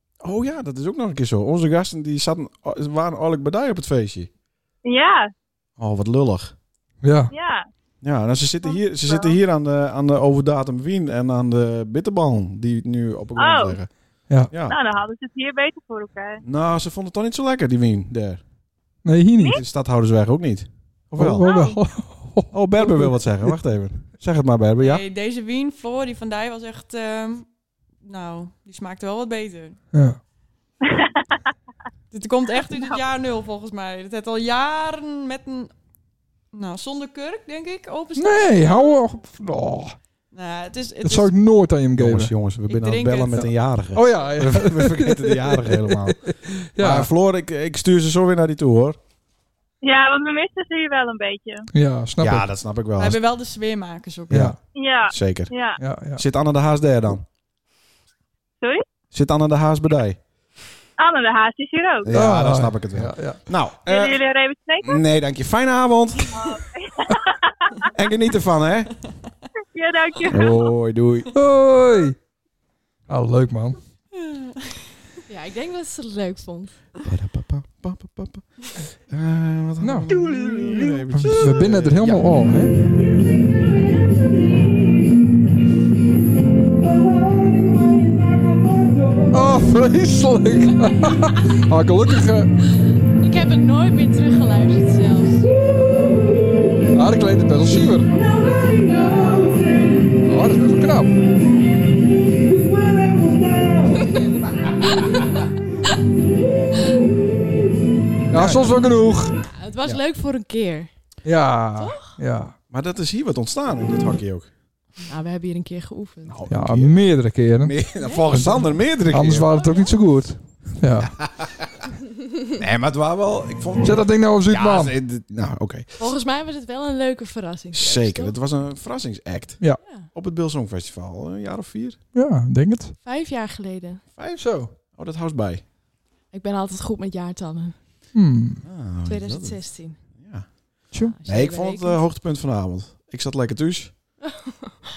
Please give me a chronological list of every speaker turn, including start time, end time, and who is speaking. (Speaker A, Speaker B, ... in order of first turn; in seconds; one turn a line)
Speaker A: 0.2-4.3
Speaker B: 4.8-5.3
Speaker A: 5.8-6.5
Speaker C: 7.0-7.3
Speaker B: 7.3-7.7
Speaker A: 8.0-13.9
Speaker B: 8.6-9.3
Speaker B: 13.4-13.8
Speaker A: 14.5-14.8
Speaker B: 14.6-16.4
Speaker A: 16.4-18.4
Speaker C: 19.0-19.6
Speaker A: 19.5-21.5
Speaker C: 21.1-23.6
Speaker B: 21.4-21.8
Speaker A: 22.5-25.0
Speaker D: 24.8-27.5
Speaker D: 28.0-29.8
Speaker C: 29.9-30.2
Speaker B: 30.8-31.5
Speaker D: 32.1-35.7
Speaker D: 36.5-39.0
Speaker C: 38.1-40.0
Speaker D: 40.3-41.3
Speaker C: 41.0-42.3
Speaker A: 42.0-46.2
Speaker D: 42.7-43.5
Speaker C: 43.4-47.1
Speaker A: 46.8-49.0
Speaker B: 49.8-51.7
Speaker C: 51.7-52.5
Speaker A: 52.2-53.2
Speaker D: 53.0-54.4
Speaker A: 54.3-54.5
Speaker C: 54.3-54.6
Speaker B: 54.7-55.8
Speaker A: 55.1-55.5
Speaker C: 55.8-56.2
Speaker A: 56.1-57.2
Speaker A: 59.1-60.2
Speaker B: 61.0-62.1
Speaker A: 62.0-64.2
Speaker C: 62.1-63.4
Speaker B: 63.9-65.0
Speaker A: 64.8-66.3
Speaker B: 66.3-67.9
Speaker A: 67.9-68.9
Speaker B: 69.7-70.7
Speaker A: 70.2-71.3
Speaker C: 71.3-72.2
Speaker C: 73.1-73.8
Speaker D: 74.1-74.8
Speaker E: 75.3-76.8
Speaker A: 77.0-82.7
Speaker C: 79.8-82.8
Speaker C: 89.3-92.5
Speaker E: 93.2-95.5
Speaker C: 96.9-98.1
Speaker C: 100.2-101.2
Speaker C: 108.3-109.4
Speaker A: 108.3-108.8
Speaker E: 109.5-110.9
Speaker C: 111.2-112.5
Speaker E: 111.8-112.1
Speaker A: 112.7-114.5
Speaker E: 115.1-116.3
Speaker A: 116.2-117.0
Speaker C: 116.5-121.1
Speaker A: 117.6-119.5
Speaker E: 118.0-118.3
Speaker E: 119.6-119.8
Speaker A: 121.0-121.7
Speaker A: 122.6-126.0
Speaker C: 123.8-125.0
Speaker E: 126.0-128.3
Speaker A: 127.7-132.0
Speaker E: 129.8-130.1
Speaker C: 132.1-132.9
Speaker E: 133.0-134.0
Speaker A: 134.1-135.6
Speaker C: 134.4-134.7
Speaker E: 136.3-137.8
Speaker C: 138.1-138.6
Speaker A: 138.6-143.9
Speaker E: 139.1-140.0
Speaker C: 140.9-141.2
Speaker E: 140.9-142.0
Speaker E: 144.3-144.7